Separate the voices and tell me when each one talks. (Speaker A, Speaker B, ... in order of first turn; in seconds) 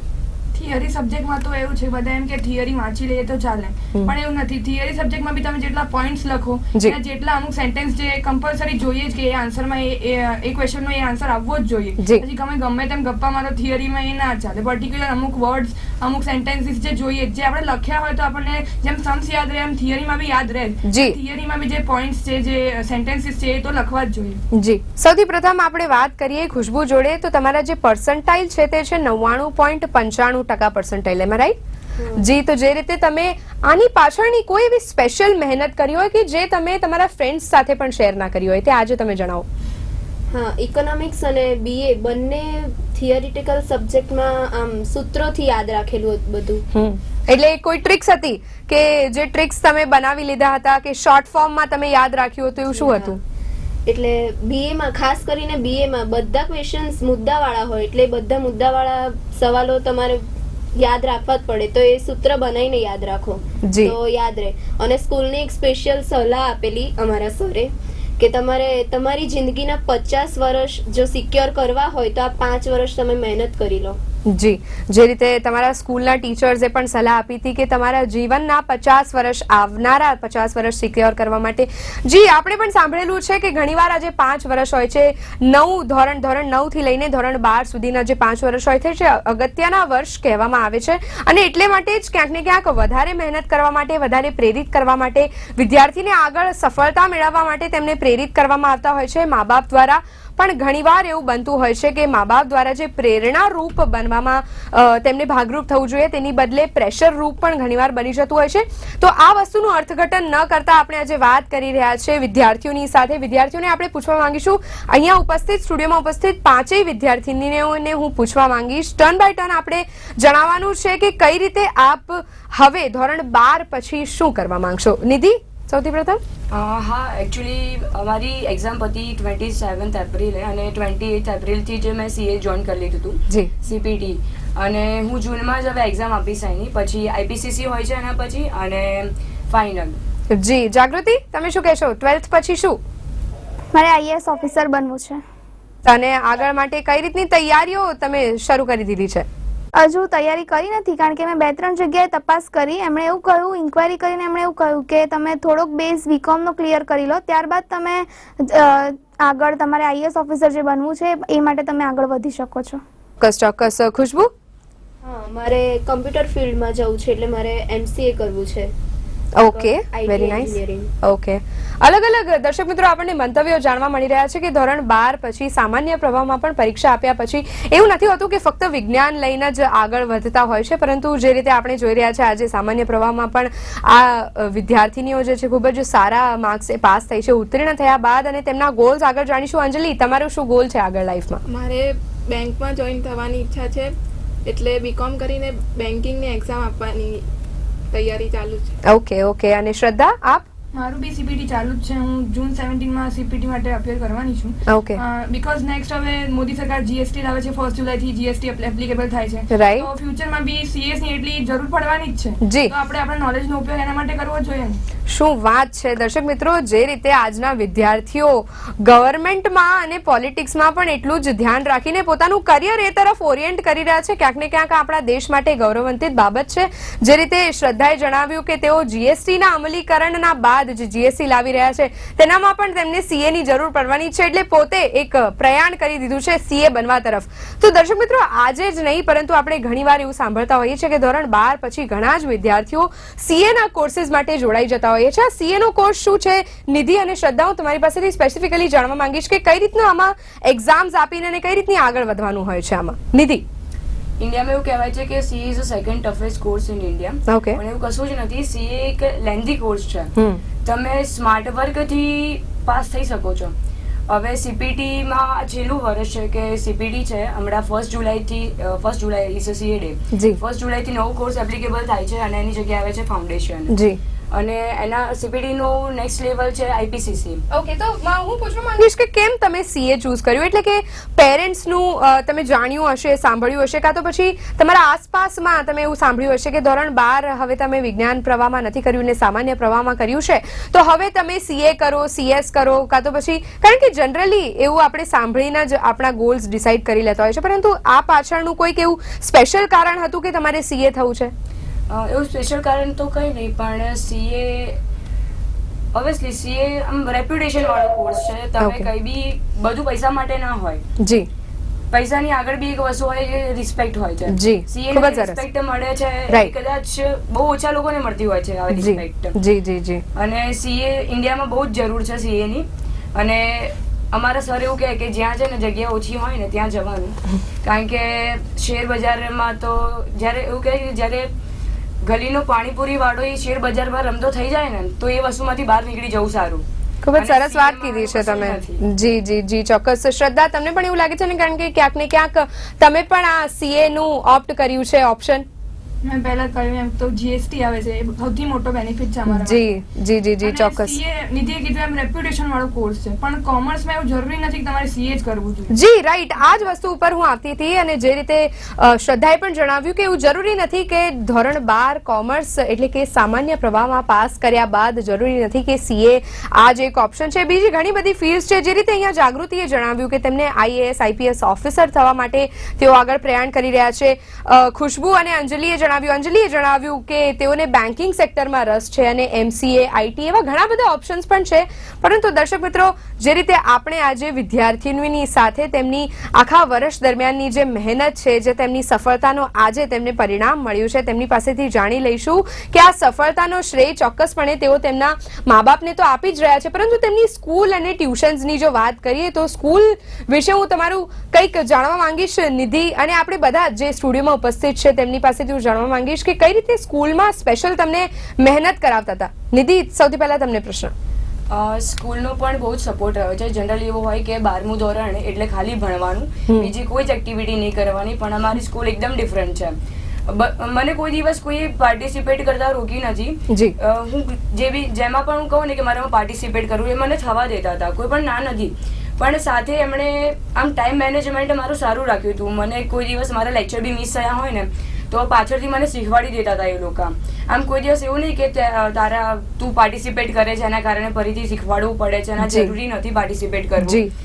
Speaker A: 0.5-24.4, 200.7-214.8, 346.0-349.7, 350.4-355.7
Speaker B: 12.0-12.2, 20.8-21.2, 24.5-31.6, 32.2-39.5, 46.7-53.2, 63.6-64.0, 74.3-126.2, 140.3-142.8, 145.8-149.3, 163.2-164.3, 169.4-191.4, 198.8-200.5, 204.7-205.0, 209.5-209.9, 212.4-212.7, 215.1-253.4, 257.3-257.6, 260.2-260.4, 270.1-270.4, 273.7-274.0, 277.5-301.3, 308.6-308.9, 311.0-311.3, 314.3-315.4, 316.3-316.5, 318.7-320.0, 337.0-345.5, 349.3-351.0, 355.7-410.9, 423.5-423.8, 442.4-442.7, 443.8-444.1
Speaker C: 32.0-32.3, 40.3-46.6, 52.8-53.2, 53.9-60.2, 60.8-74.0, 165.0-168.7, 169.4-170.9
Speaker D: 126.5-140.0, 254.2-260.1, 260.6-263.5, 264.1-273.8, 274.3-277.4, 301.9-304.8, 305.9-310.8, 311.9-319.4, 320.1-331.3, 332.0-336.6, 337.2-338.8, 411.5-419.8, 420.3-444.0
Speaker E: 143.7-145.2, 149.7-162.8
Speaker F: 191.5-193.9, 194.5-197.3, 197.9-198.8